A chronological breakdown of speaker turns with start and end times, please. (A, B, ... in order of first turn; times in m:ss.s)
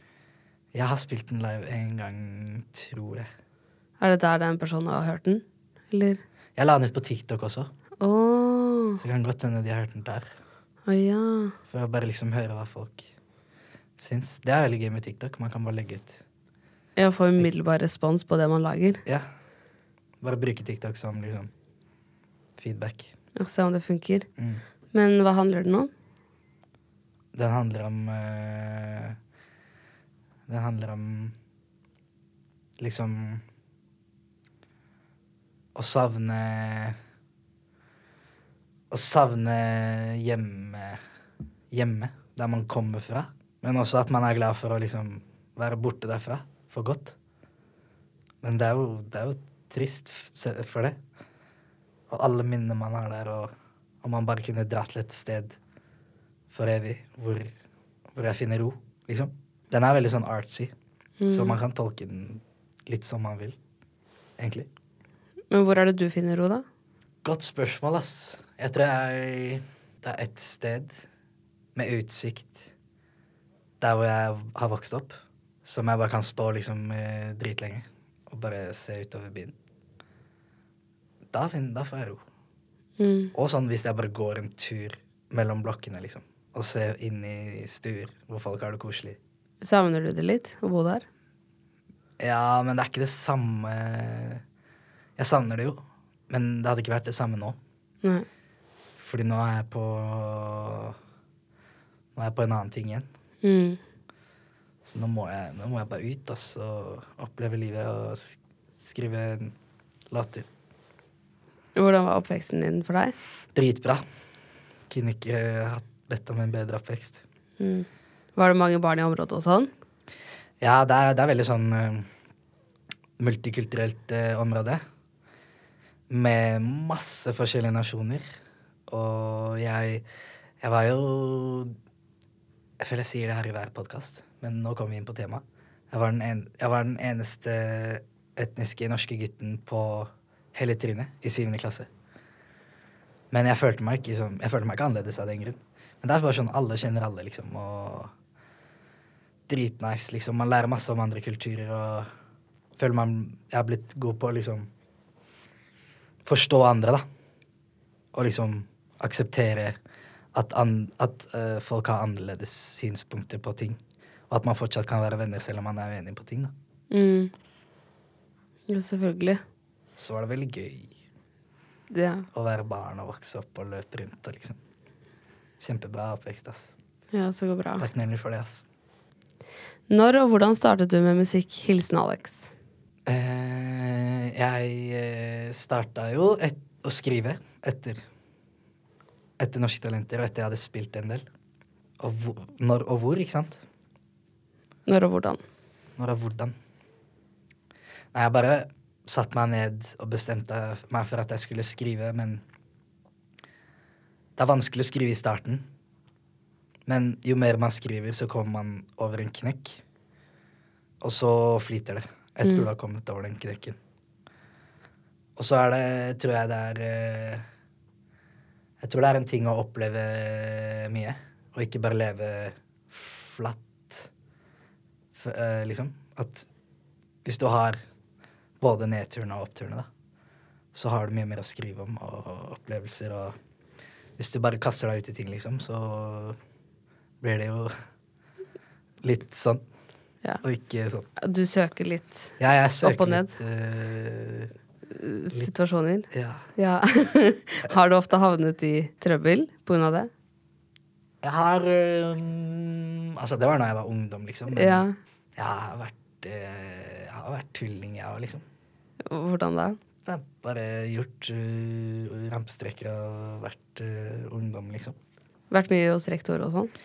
0:00.7-0:03.3 A
0:04.0-0:06.2 B
0:06.6-0:07.7 A
0:08.0-0:09.0 B
0:09.0-0:10.3 A
0:10.9-0:11.5 B
0:11.7-0:13.1 A
0:14.0-0:16.2 A
0:17.0-0:19.0 B
0:20.2-0:21.5 A
0:22.6-0:23.1 A
0:23.4-0:24.3 B
0:24.4-0:24.6 A
0:24.9-0:25.9 B
0:27.3-0:29.2 A
0:30.5-0:31.3 A
0:32.8-0:33.4 A
0:35.7-0:37.0 A
0:38.9-0:41.0 A
0:41.7-0:47.2 A
0:48.4-0:51.0 A
0:52.1-0:55.6 A
0:56.5-0:57.5 A
0:58.1-1:00.7 A
1:01.2-1:01.6 B
1:01.3-1:03.6 A
1:04.4-1:04.7 A
1:05.5-1:06.6 B
1:07.2-1:11.1 A
1:11.7-1:12.7 A
1:13.8-1:19.5 A
1:21.3-1:22.2 A
1:23.0-1:23.3 B
1:23.3-1:29.2 A
1:29.6-1:31.0 B
1:32.2-1:34.4 A
1:35.2-1:37.6 A
1:39.0-1:41.0 A
1:42.1-1:43.1 A
1:43.4-1:43.8 B
1:44.8-1:49.5 A
1:50.1-1:50.5 A
1:51.8-1:53.1 B
1:53.5-1:54.0 A
1:54.9-1:57.2 A
1:57.6-1:59.7 B
2:00.6-2:02.1 A
2:03.2-2:04.8 A
2:06.1-2:08.2 A
2:08.9-2:10.0 A
2:10.6-2:11.8 A
2:12.8-2:21.9 A
2:23.3-2:28.1 A
2:29.5-2:32.1 A
2:32.8-2:34.7 A
2:36.2-2:37.0 A
2:38.1-2:39.8 A
2:40.3-2:43.8 A
2:44.3-2:46.5 A
2:46.9-2:47.3 B
2:48.7-2:49.4 B
2:50.0-2:50.9 A
2:51.9-2:52.2 B
2:52.3-2:54.6 A
2:55.6-2:56.7 A
2:57.1-2:57.8 B
2:57.8-2:58.6 A
2:59.9-3:02.5 B
3:03.0-3:08.0 A
3:09.4-3:11.2 A
3:12.0-3:13.6 A
3:14.9-3:15.4 B
3:16.0-3:16.5 A
3:18.1-3:22.4 A
3:24.4-3:25.6 A
3:26.8-3:29.8 A
3:31.0-3:33.8 A
3:35.4-3:37.4 A
3:38.8-3:44.1 A
3:45.1-3:46.5 A
3:47.2-3:47.8 A
3:48.6-3:49.9 A
3:50.7-3:53.4 A
3:54.2-3:56.4 A
3:57.2-3:57.8 A
3:59.0-3:59.6 A
4:00.4-4:01.1 A
4:01.2-4:03.3 B
4:02.4-4:04.5 A
4:04.9-4:10.1 B
4:06.1-4:06.5 A
4:11.2-4:18.4 A
4:14.5-4:14.9 B
4:19.1-4:19.8 B
4:20.0-4:25.0 A
4:25.5-4:26.7 B